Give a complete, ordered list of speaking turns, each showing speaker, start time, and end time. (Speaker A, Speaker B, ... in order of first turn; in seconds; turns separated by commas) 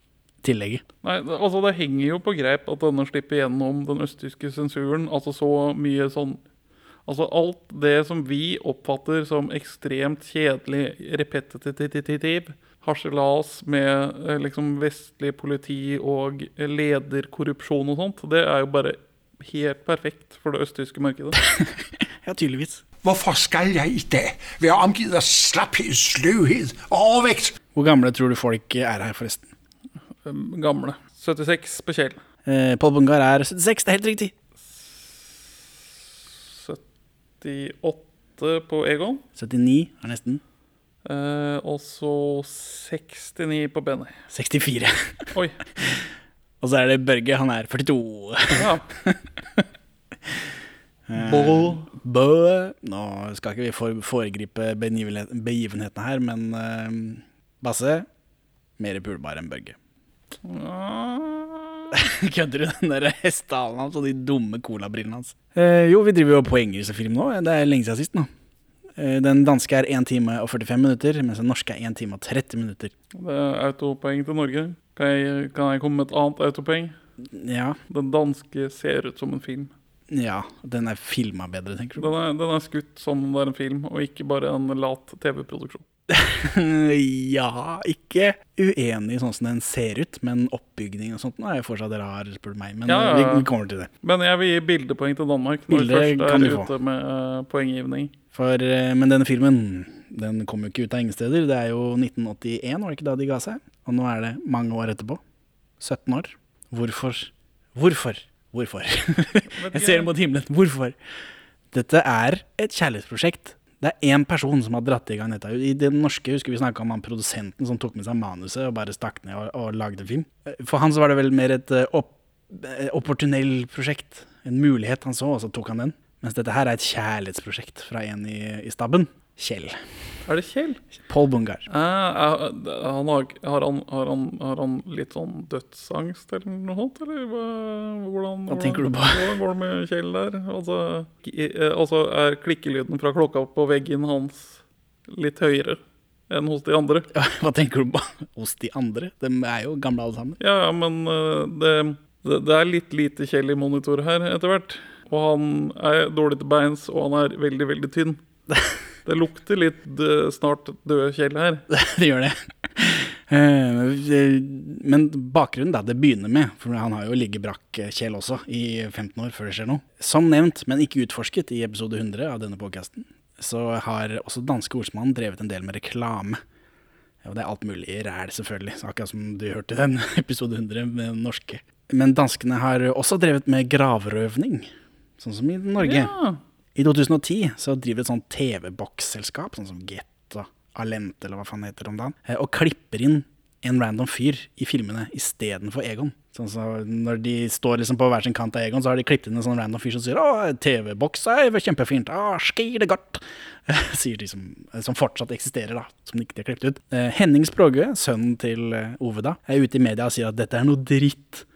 Speaker A: 0.4-0.8, Speaker B: 1.0-6.4, Speaker B: 7.1-21.4, Speaker A: 22.2-22.8, Speaker C: 23.0-27.6, Speaker A: 27.8-29.5, Speaker B: 30.2-32.2, Speaker A: 32.5-34.3, Speaker B: 34.7-35.6, Speaker B: 36.3-36.8, Speaker B: 37.4-39.2, Speaker A: 39.4-40.4, Speaker B: 41.0-44.1, Speaker A: 44.3-44.9, Speaker A: 46.6-49.6, Speaker B: 48.5-48.9, Speaker A: 51.1-58.1, Speaker B: 51.2-51.9, Speaker A: 58.8-59.8, Speaker B: 60.4-61.9, Speaker A: 61.9-68.3, Speaker A: 69.0-72.9, Speaker B: 73.1-77.0, Speaker A: 77.3-77.8, Speaker B: 77.9-79.7, Speaker A: 80.1-82.1, Speaker B: 82.0-85.8, Speaker A: 86.1-93.9, Speaker B: 92.9-93.5, Speaker B: 94.0-98.1, Speaker A: 95.7-96.7, Speaker A: 98.3-105.2, Speaker A: 105.8-111.0, Speaker B: 109.5-110.1, Speaker A: 111.7-129.8, Speaker B: 130.3-130.8, Speaker A: 131.1-131.7, Speaker B: 131.7-147.1, Speaker A: 138.5-139.3, Speaker A: 147.1-150.4, Speaker B: 150.4-158.2, Speaker B: 159.1-161.6, Speaker A: 161.7-176.4, Speaker A: 177.2-186.1, Speaker B: 185.8-186.4, Speaker A: 186.8-211.4